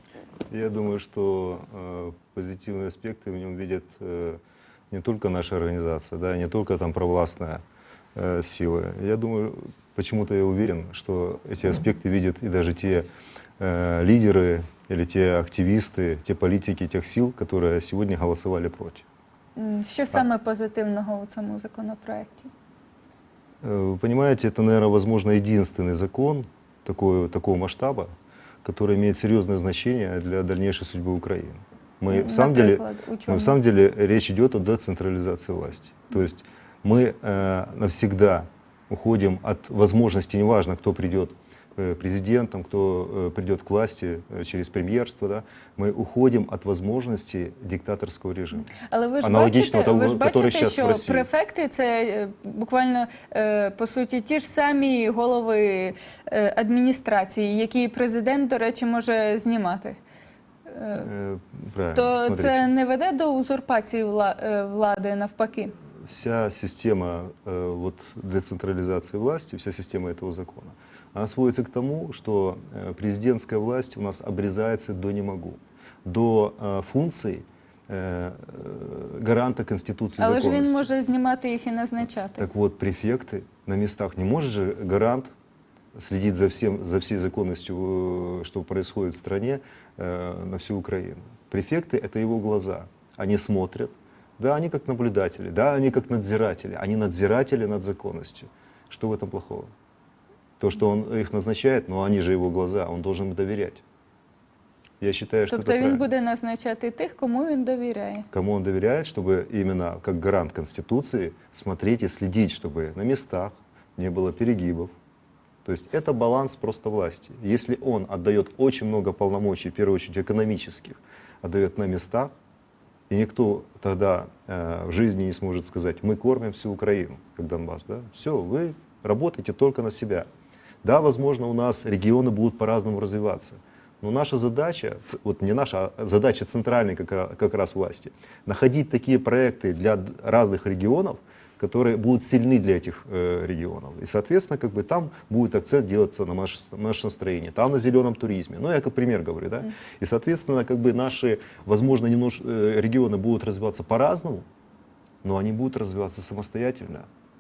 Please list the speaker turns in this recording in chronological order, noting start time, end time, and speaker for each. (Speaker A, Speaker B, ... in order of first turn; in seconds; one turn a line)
Speaker A: 0.5-7.6
Speaker A: 8.2-13.1
Speaker A: 13.6-19.1
Speaker B: 19.6-22.5
Speaker A: 23.6-28.1
Speaker A: 28.6-51.3
Speaker B: 32.1-33.6
Speaker B: 48.7-60.0
Speaker B: 60.7-61.1
Speaker A: 61.0-62.7
Speaker B: 62.0-65.8
Speaker A: 66.0-80.8
Speaker B: 80.2-82.5
Speaker A: 82.4-85.3
Speaker A: 86.0-99.7
Speaker A: 100.6-103.8
Speaker A: 105.0-106.1
Speaker B: 105.5-108.3
Speaker A: 108.3-114.9
Speaker A: 115.7-122.3
Speaker A: 123.1-130.3
Speaker A: 130.8-154.5
Speaker A: 155.2-157.1